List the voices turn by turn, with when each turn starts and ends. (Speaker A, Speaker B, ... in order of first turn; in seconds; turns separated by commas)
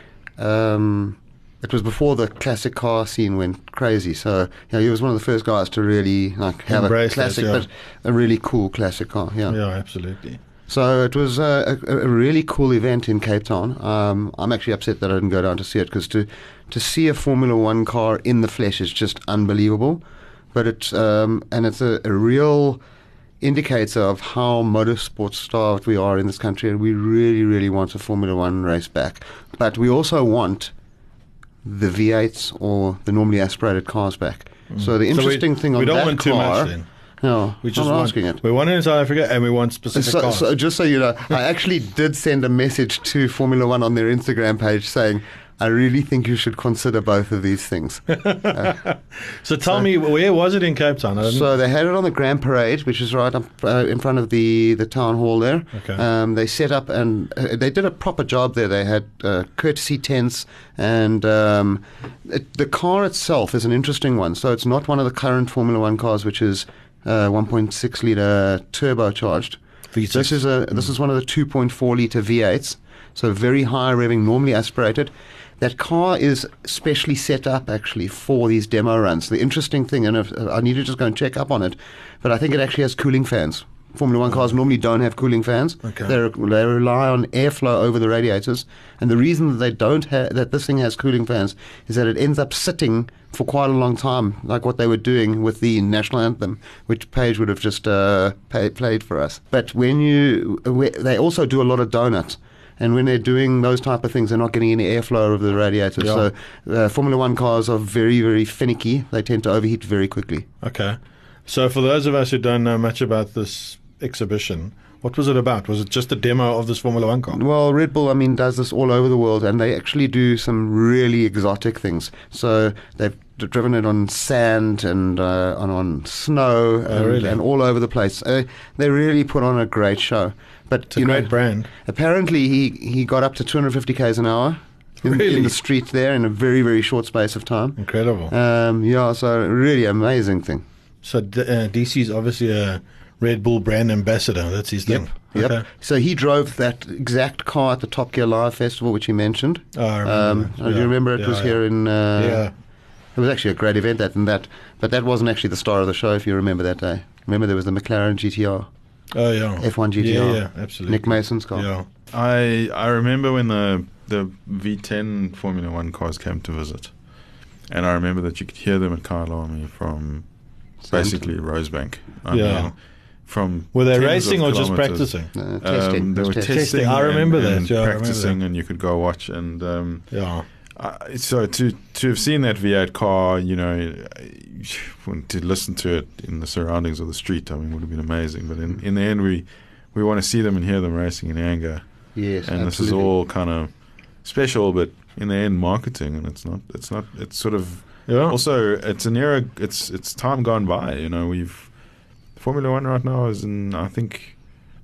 Speaker A: 0.4-9.6, Speaker B: 6.7-7.6, Speaker B: 9.5-10.4, Speaker A: 10.7-20.0, Speaker A: 20.5-22.8, Speaker A: 23.4-30.7, Speaker A: 31.6-38.4, Speaker B: 34.7-36.8, Speaker B: 37.6-40.5, Speaker A: 39.9-48.8, Speaker B: 48.1-51.5, Speaker A: 51.2-69.6, Speaker B: 55.7-56.0, Speaker B: 69.9-70.4, Speaker A: 70.1-110.5, Speaker B: 85.8-86.1, Speaker B: 106.0-106.2, Speaker B: 110.6-117.4, Speaker A: 117.3-140.6, Speaker B: 126.9-127.4, Speaker B: 130.9-131.7, Speaker B: 135.0-135.5, Speaker B: 137.8-138.3, Speaker B: 141.0-145.6, Speaker A: 144.9-152.5, Speaker B: 149.7-151.6, Speaker B: 152.2-152.5, Speaker A: 153.1-158.7, Speaker B: 159.1-161.9, Speaker A: 159.6-161.7, Speaker C: 162.1-166.9, Speaker C: 167.7-170.3, Speaker A: 170.8-171.2, Speaker C: 170.9-172.7, Speaker B: 172.3-172.7, Speaker C: 173.2-180.2, Speaker B: 173.7-175.3, Speaker A: 175.3-176.6, Speaker B: 176.5-178.3, Speaker B: 180.1-180.4, Speaker C: 180.8-191.8, Speaker A: 192.1-193.1, Speaker C: 192.4-193.7, Speaker C: 194.2-201.7, Speaker B: 198.1-198.3, Speaker C: 202.3-204.4